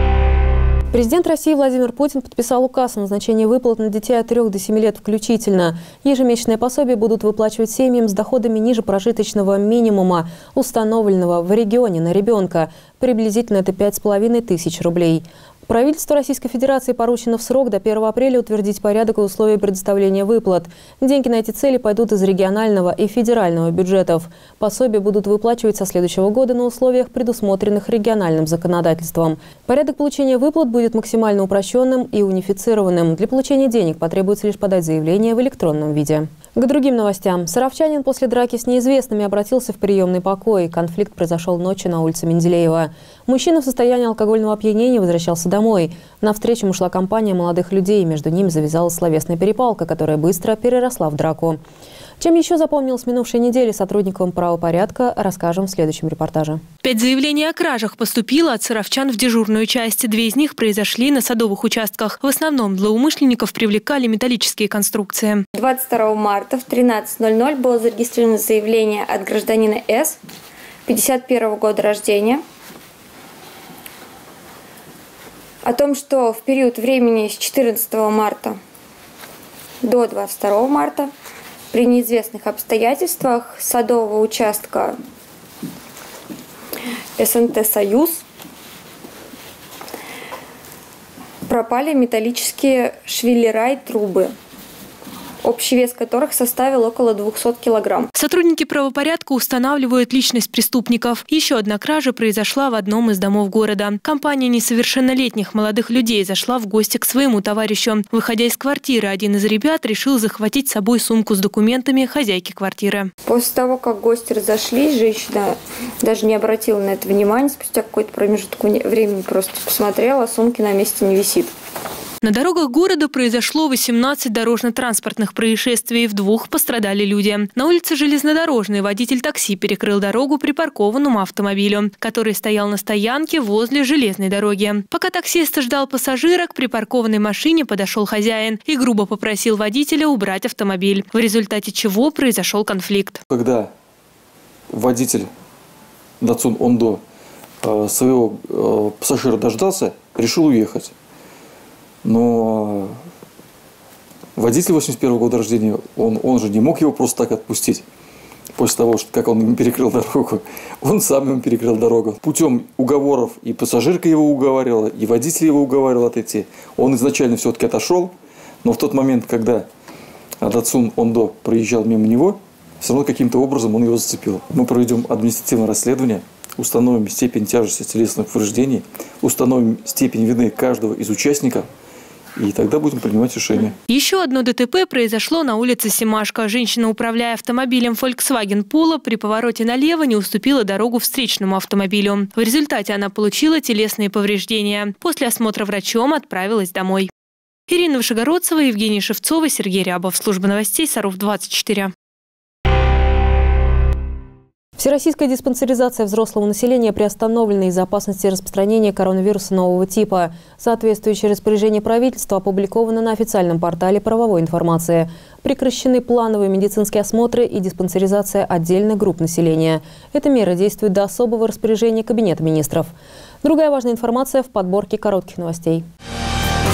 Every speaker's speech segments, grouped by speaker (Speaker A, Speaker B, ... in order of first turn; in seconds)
Speaker A: 0.9-51.6, 52.2-56.6, 204.8-225.8
Speaker B: 56.8-65.4, 98.1-113.1, 122.2-143.2, 183.9-197.1, 197.7-201.9
Speaker C: 65.6-70.2, 70.9-72.4, 75.6-78.6, 79.8-81.1, 81.7-85.0, 87.2-88.2, 91.5-94.3, 95.4-98.1, 113.3-121.5
Speaker D: 143.3-143.7, 144.7-145.3, 146.2-147.0, 147.6-150.9, 152.0-153.0, 154.3-157.8, 158.6-168.1, 168.6-169.7, 170.4-181.7, 182.4-183.7